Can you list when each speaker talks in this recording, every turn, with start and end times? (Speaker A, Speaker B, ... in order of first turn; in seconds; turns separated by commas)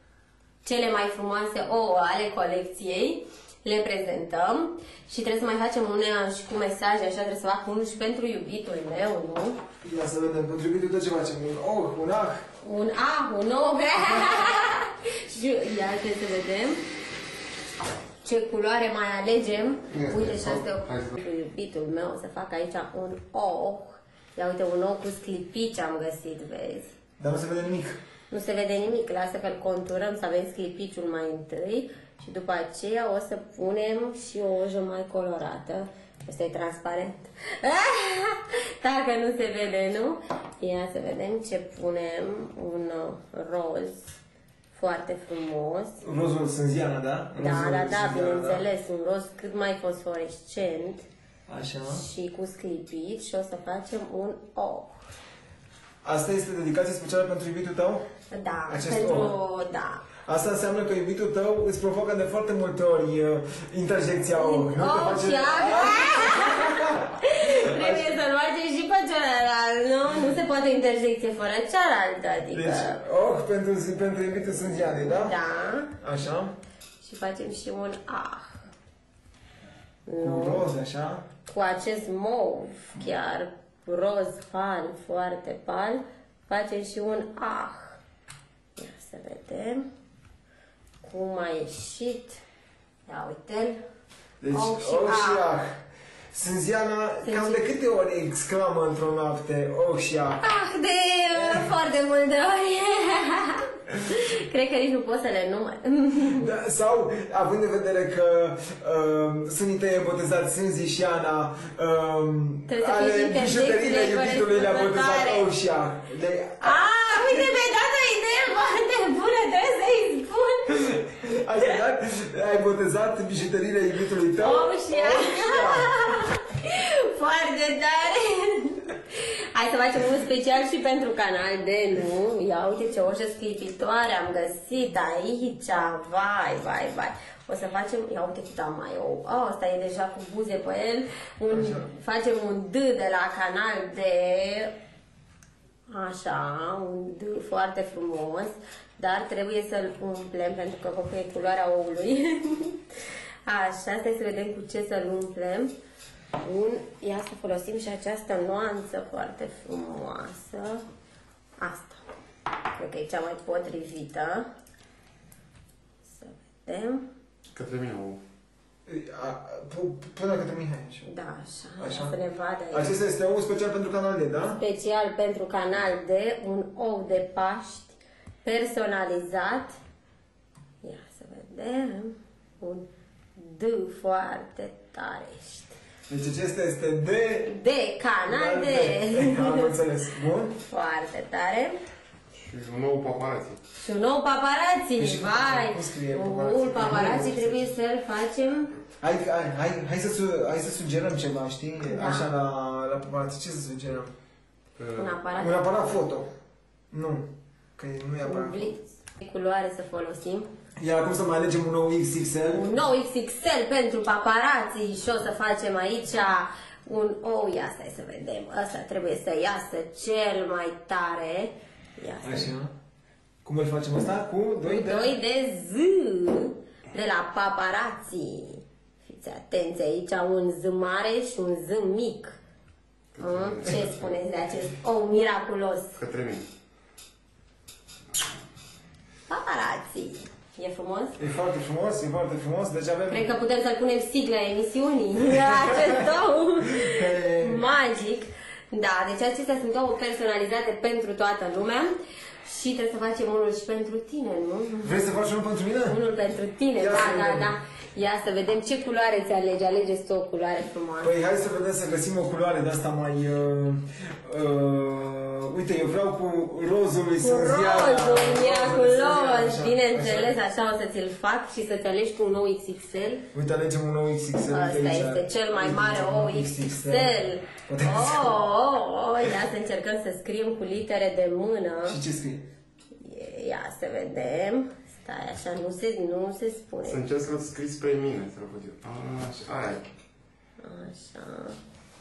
Speaker A: 0.6-9.6, Speaker B: 9.8-12.4, Speaker A: 12.6-16.8, Speaker A: 18.2-26.9, Speaker C: 19.9-21.2, Speaker B: 27.2-28.0, Speaker A: 28.3-44.1, Speaker A: 44.7-46.0, Speaker B: 46.0-48.6, Speaker A: 47.4-51.0, Speaker B: 51.5-52.0, Speaker A: 51.9-55.0, Speaker B: 56.0-58.1, Speaker A: 58.3-60.0, Speaker B: 58.7-59.3, Speaker B: 60.3-68.2, Speaker A: 64.4-73.0, Speaker B: 72.5-75.4, Speaker A: 75.2-76.0, Speaker B: 76.0-76.5, Speaker A: 77.0-78.7, Speaker A: 80.1-80.6, Speaker B: 80.2-81.2, Speaker A: 81.5-88.0, Speaker A: 88.8-89.9, Speaker A: 91.0-92.4, Speaker A: 93.1-93.8, Speaker B: 94.4-95.8, Speaker A: 94.5-95.4, Speaker B: 96.3-100.4, Speaker A: 97.2-97.6, Speaker A: 100.4-106.5, Speaker B: 101.3-101.7, Speaker B: 106.3-116.7, Speaker A: 112.7-115.5, Speaker A: 116.6-120.8, Speaker B: 120.7-126.0, Speaker A: 124.4-144.7, Speaker B: 141.5-141.9, Speaker A: 145.9-152.8, Speaker A: 153.5-155.7, Speaker A: 156.4-160.8, Speaker A: 161.6-162.0, Speaker A: 162.8-164.5, Speaker A: 166.1-167.1, Speaker C: 167.5-168.2, Speaker B: 168.9-171.1, Speaker A: 171.1-172.9, Speaker B: 171.8-172.2, Speaker B: 172.7-174.6, Speaker A: 174.5-179.8, Speaker A: 180.8-185.8, Speaker B: 186.1-187.5, Speaker A: 187.4-189.8, Speaker B: 188.3-190.6, Speaker A: 190.7-191.8, Speaker C: 192.3-193.6, Speaker A: 193.8-198.7, Speaker B: 195.0-197.6, Speaker B: 199.0-204.1, Speaker A: 201.9-202.3, Speaker C: 204.8-205.1, Speaker A: 204.9-205.6, Speaker B: 205.4-206.3, Speaker B: 206.9-208.7, Speaker A: 208.2-210.5, Speaker B: 210.8-212.7, Speaker A: 212.5-222.5, Speaker B: 222.2-222.7, Speaker B: 223.4-225.2, Speaker A: 224.7-232.3, Speaker C: 233.2-234.1, Speaker A: 233.2-236.0, Speaker C: 236.0-236.5, Speaker A: 239.3-241.2, Speaker B: 241.2-243.3, Speaker A: 243.1-254.9, Speaker B: 245.5-246.0, Speaker B: 246.6-247.6, Speaker B: 254.8-256.0, Speaker A: 255.9-261.1, Speaker B: 256.8-257.5, Speaker B: 261.0-270.4, Speaker A: 267.2-273.2, Speaker B: 273.3-278.4, Speaker A: 274.5-282.0, Speaker B: 281.9-282.4, Speaker A: 282.9-287.0, Speaker C: 286.9-289.9, Speaker A: 290.6-291.6